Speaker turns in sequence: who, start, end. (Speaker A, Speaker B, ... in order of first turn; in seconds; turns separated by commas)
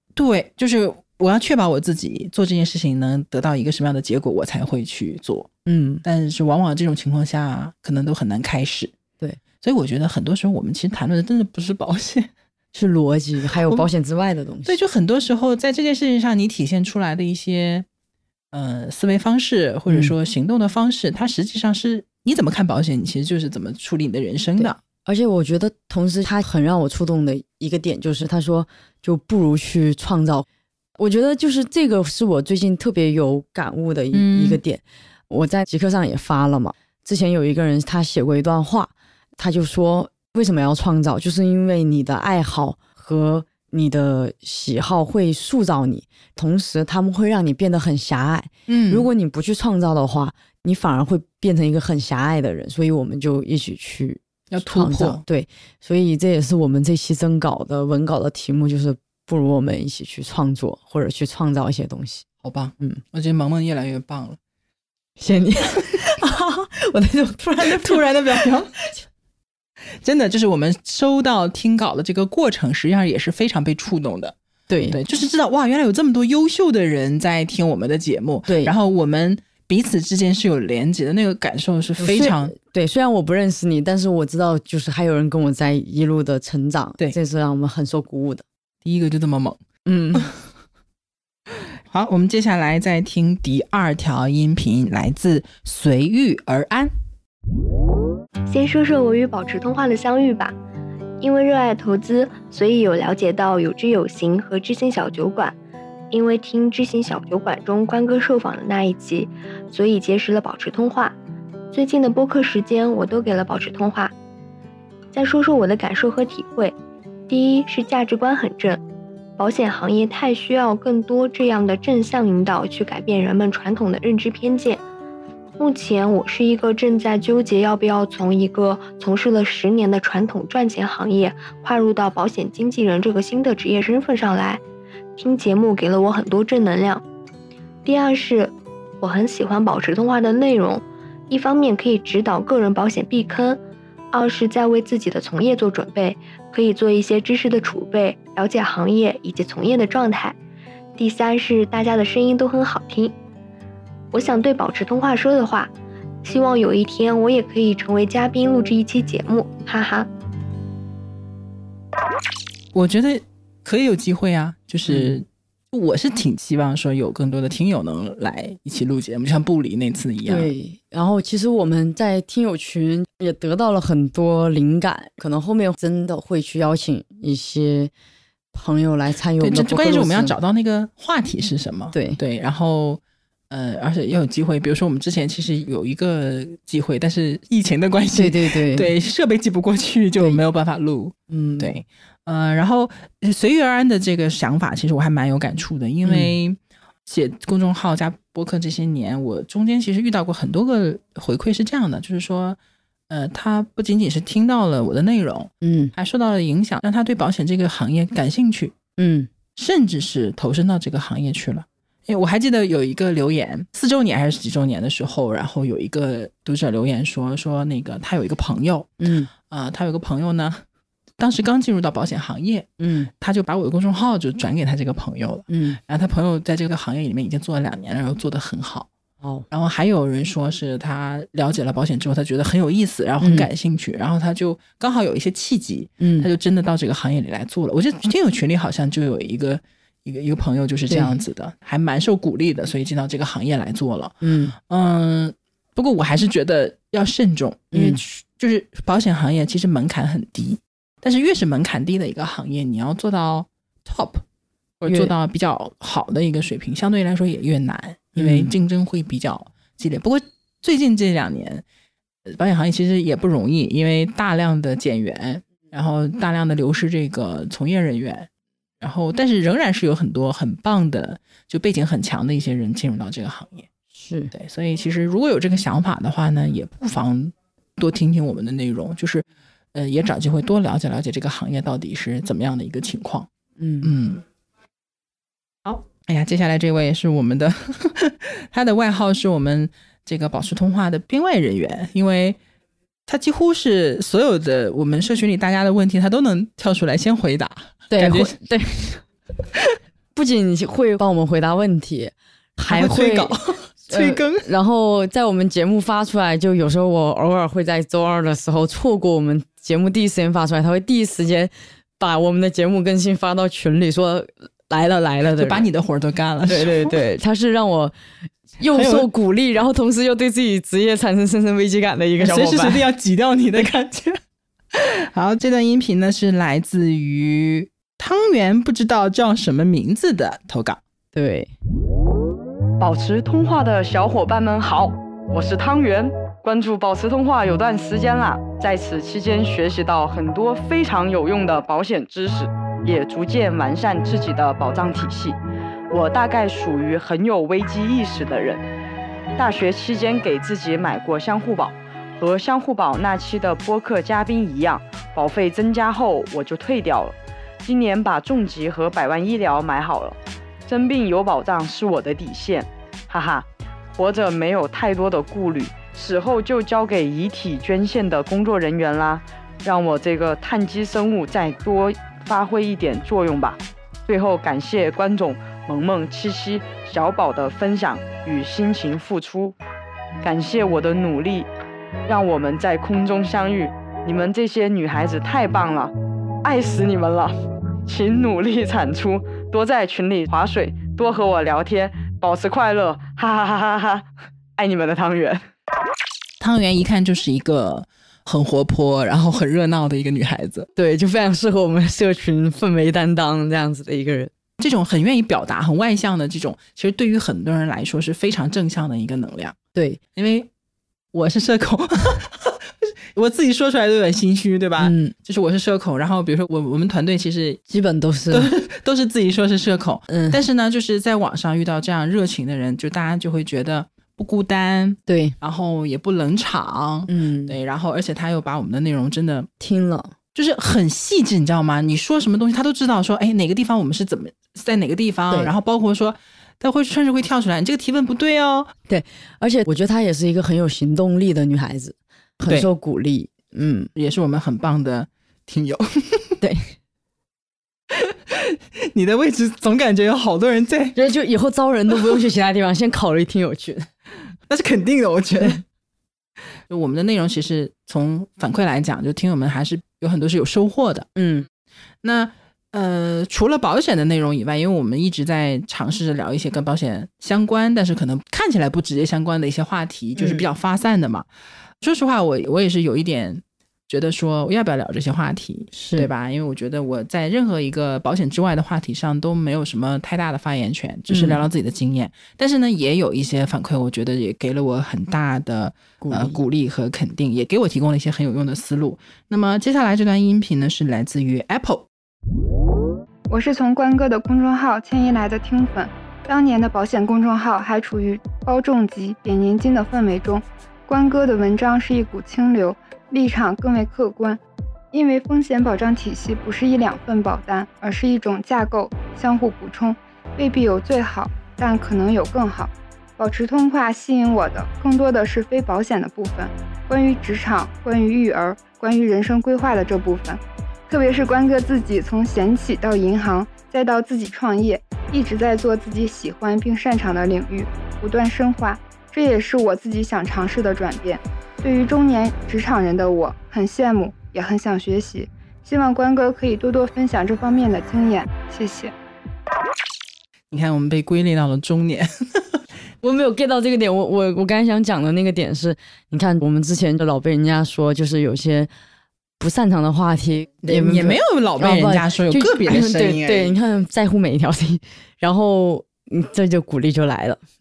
Speaker A: 0.2-5.5, Speaker B: 5.7-6.0, Speaker A: 6.0-8.9, Speaker A: 9.6-12.3, Speaker B: 12.7-14.8, Speaker A: 13.5-13.9, Speaker A: 14.7-17.9, Speaker A: 18.5-24.8, Speaker B: 24.6-30.5, Speaker B: 31.0-62.2, Speaker A: 34.1-34.6, Speaker A: 48.7-49.1, Speaker A: 54.5-55.2, Speaker A: 62.4-64.4, Speaker B: 65.2-69.0, Speaker A: 67.6-68.7, Speaker A: 70.0-74.3, Speaker B: 74.7-75.0, Speaker A: 74.9-82.5, Speaker B: 78.5-78.7, Speaker B: 82.0-88.4, Speaker A: 88.8-89.6, Speaker B: 89.9-90.3, Speaker A: 91.9-96.9, Speaker C: 98.5-100.5, Speaker C: 101.2-105.5, Speaker C: 106.1-111.2, Speaker C: 111.7-114.1, Speaker C: 115.1-116.8, Speaker C: 117.3-118.8, Speaker C: 119.4-124.8, Speaker C: 125.6-134.6, Speaker C: 135.2-137.0, Speaker C: 137.8-143.6, Speaker C: 144.1-150.4, Speaker C: 151.0-153.1, Speaker C: 154.1-155.7, Speaker C: 156.2-160.1, Speaker A: 162.7-170.5, Speaker B: 164.9-165.2, Speaker B: 170.3-177.9, Speaker B: 178.5-180.4, Speaker A: 179.4-202.6, Speaker B: 181.9-182.2, Speaker B: 188.1-188.9, Speaker B: 191.3-191.7, Speaker B: 196.1-196.3, Speaker A: 203.1-208.8, Speaker B: 205.6-205.9, Speaker B: 209.0-209.3, Speaker A: 209.6-220.6, Speaker B: 219.0-219.3, Speaker A: 221.2-228.9, Speaker B: 222.8-223.1, Speaker B: 225.5-225.8, Speaker A: 229.5-254.2, Speaker B: 233.2-233.5, Speaker B: 236.0-236.3, Speaker B: 240.9-241.2, Speaker B: 244.2-244.6, Speaker B: 247.7-248.0, Speaker A: 254.8-261.6, Speaker B: 254.9-255.1, Speaker B: 258.2-258.5, Speaker A: 262.3-268.3, Speaker A: 268.8-273.7, Speaker B: 273.9-274.3, Speaker A: 274.3-283.3, Speaker B: 283.6-283.9, Speaker A: 283.8-284.2, Speaker A: 285.6-292.4, Speaker A: 293.1-298.4, Speaker B: 297.9-299.0, Speaker B: 300.1-303.4, Speaker A: 302.7-304.5, Speaker B: 303.9-315.7, Speaker A: 315.3-317.0, Speaker B: 316.5-317.9, Speaker B: 318.6-322.8, Speaker A: 318.7-319.1, Speaker A: 322.2-324.2, Speaker A: 324.7-330.8, Speaker B: 331.1-331.5, Speaker D: 332.8-345.4, Speaker D: 345.9-348.6, Speaker D: 349.4-379.6, Speaker D: 380.2-381.5, Speaker D: 382.1-385.9, Speaker D: 386.4-394.1, Speaker D: 394.6-395.5, Speaker A: 396.4-400.7, Speaker B: 400.8-404.3, Speaker A: 404.6-409.6, Speaker B: 409.8-410.0, Speaker A: 410.1-410.5, Speaker A: 411.1-412.6, Speaker A: 413.1-417.6, Speaker B: 414.8-415.1, Speaker B: 417.7-418.5, Speaker A: 418.3-429.5, Speaker B: 420.1-420.4, Speaker B: 425.1-425.4, Speaker B: 427.1-427.6, Speaker B: 429.6-430.1, Speaker A: 430.4-438.7, Speaker B: 438.9-443.9, Speaker A: 443.9-446.4, Speaker B: 446.4-446.7, Speaker A: 447.9-451.0, Speaker B: 450.9-453.9, Speaker A: 454.5-455.6, Speaker A: 456.7-461.1, Speaker B: 461.1-461.5, Speaker A: 462.0-471.3, Speaker B: 470.2-470.4, Speaker A: 471.8-491.9, Speaker B: 475.7-476.1, Speaker B: 481.1-481.4, Speaker B: 486.0-486.4, Speaker E: 493.3-504.4, Speaker E: 504.9-538.9, Speaker A: 540.5-542.1, Speaker B: 543.0-548.7, Speaker B: 549.4-557.4, Speaker A: 550.6-553.5